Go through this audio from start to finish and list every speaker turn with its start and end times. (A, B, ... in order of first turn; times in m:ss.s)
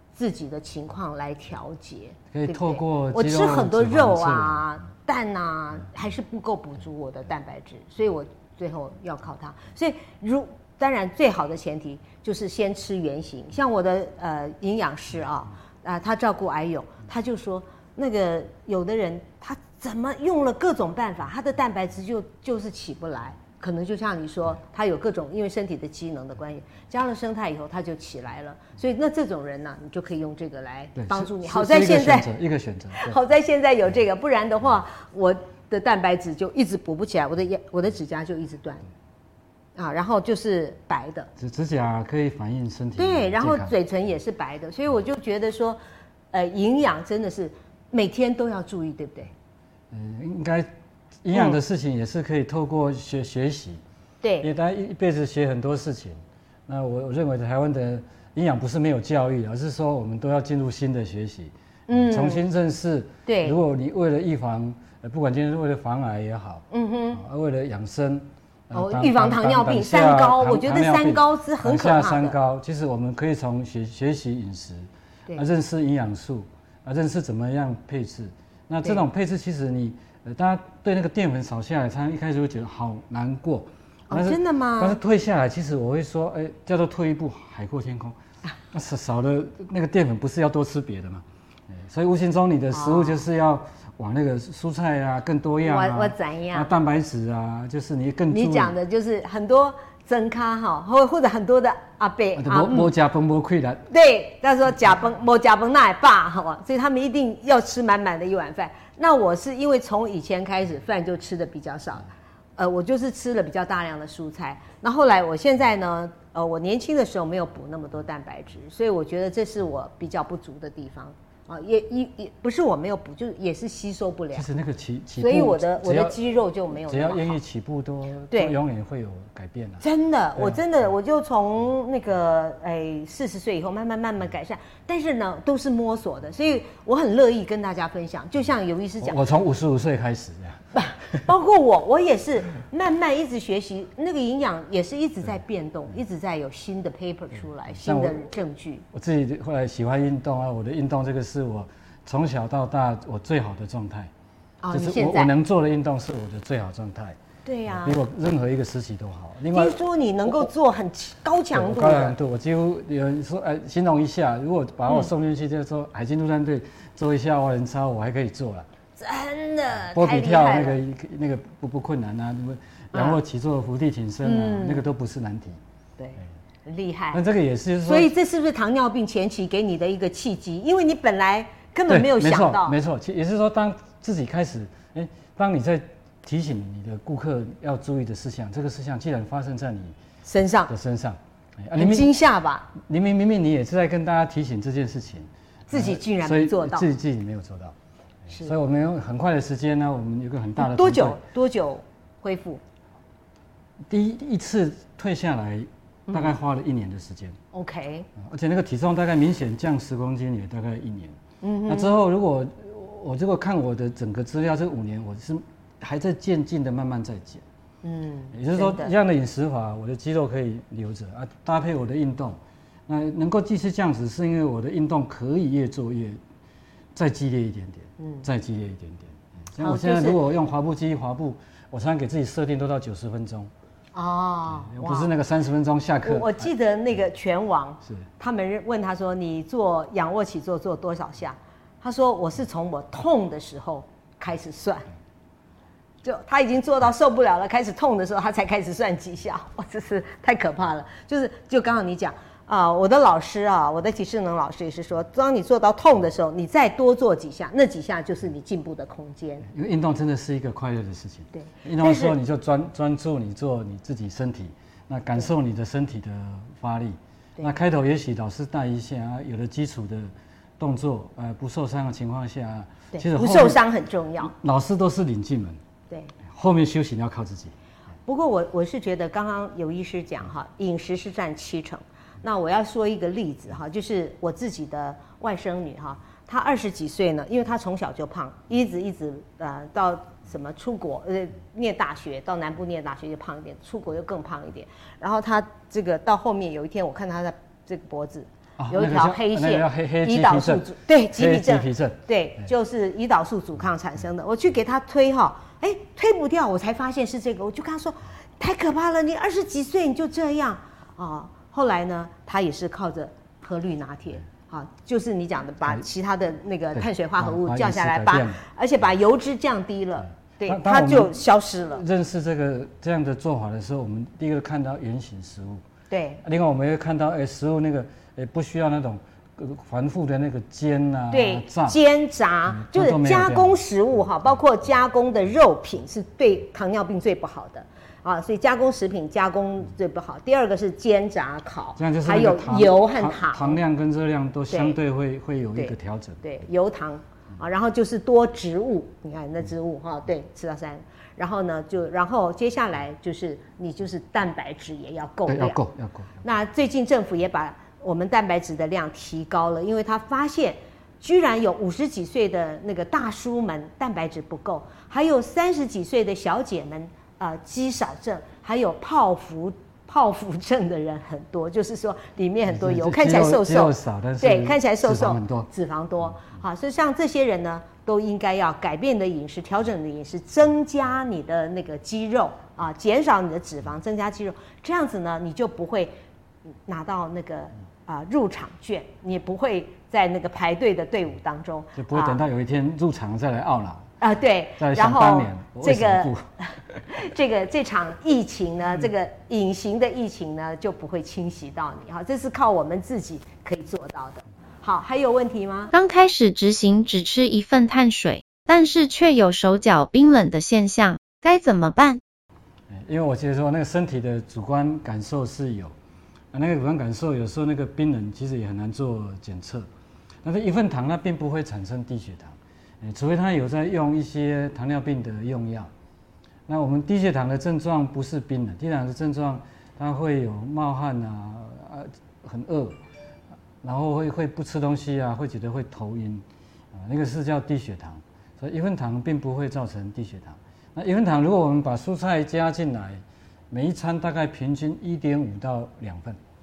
0:00.1-0:32.3 A
0:02.3-0:04.7 B
0:31.0-0:33.2 B
0:33.0-0:38.8 A
0:39.8-0:41.3 A
0:41.4-0:43.7 B
0:43.0-0:45.8 A
0:46.3-0:49.3 A
0:49.9-0:50.7 B
0:51.2-0:53.8 B
0:51.3-0:51.6 A
0:54.2-0:54.5 A
0:54.4-1:28.2 B
1:01.9-1:02.4 A
1:03.3-1:03.6 A
1:06.7-1:07.2 A
1:08.7-1:12.4 A
1:24.1-1:25.0 A
1:28.7-1:38.8 B
1:32.7-1:33.2 A
1:35.6-1:36.7 A
1:38.3-1:42.9 A
1:42.4-1:43.9 B
1:43.9-2:04.5 A
2:04.3-2:06.2 B
2:05.2-2:07.4 A
2:06.9-2:09.8 B
2:08.3-2:08.6 A
2:09.8-2:19.2 A
2:19.0-2:20.7 B
2:20.7-2:28.8 A
2:27.8-2:28.3 B
2:28.9-2:34.1 B
2:34.6-2:35.3 A
2:34.7-2:39.8 B
2:37.4-2:38.0 A
2:39.5-2:42.2 A
2:41.5-2:48.7 B
2:49.0-2:50.8 A
2:49.9-2:55.6 B
2:52.9-2:53.2 A
2:54.2-2:54.8 A
2:56.0-2:57.2 A
2:57.1-2:58.1 B
2:57.8-3:02.8 A
3:01.9-3:10.0 B
3:10.3-3:10.7 A
3:10.7-3:12.1 B
3:11.8-3:12.7 A
3:12.8-3:17.8 B
3:15.7-3:16.9 A
3:18.3-3:21.2 B
3:20.6-3:22.6 A
3:23.9-3:27.4 B
3:26.1-3:26.3 A
3:27.5-3:28.1 A
3:28.2-3:37.4 B
3:31.4-3:32.0 A
3:37.8-3:38.9 A
3:38.3-3:46.2 B
3:46.9-3:53.5 B
3:48.0-3:48.3 A
3:49.6-3:50.2 A
3:53.9-3:55.1 A
3:54.6-3:56.5 B
3:56.0-4:04.9 A
4:06.0-4:19.5 A
4:19.5-4:33.6 B
4:21.4-4:22.2 A
4:32.9-4:34.3 A
4:34.2-4:35.6 B
4:36.3-4:37.5 B
4:38.1-5:21.8 A
4:58.6-5:02.0 B
5:16.8-5:18.4 B
5:20.5-5:25.6 B
5:25.9-5:26.2 A
5:26.2-5:31.8 B
5:31.1-5:43.6 A
5:32.5-5:33.6 B
5:41.8-5:46.2 B
5:44.5-5:44.8 A
5:45.6-5:55.6 A
5:55.3-5:56.2 B
5:56.2-6:26.0 A
6:12.5-6:15.5 B
6:26.6-6:32.2 A
6:31.8-6:33.9 B
6:34.0-6:45.7 A
6:34.6-6:36.3 B
6:45.7-6:52.0 C
6:52.7-6:55.7 B
6:56.3-6:59.7 B
7:00.2-7:05.7 B
7:06.5-7:12.8 B
7:13.6-7:26.2 B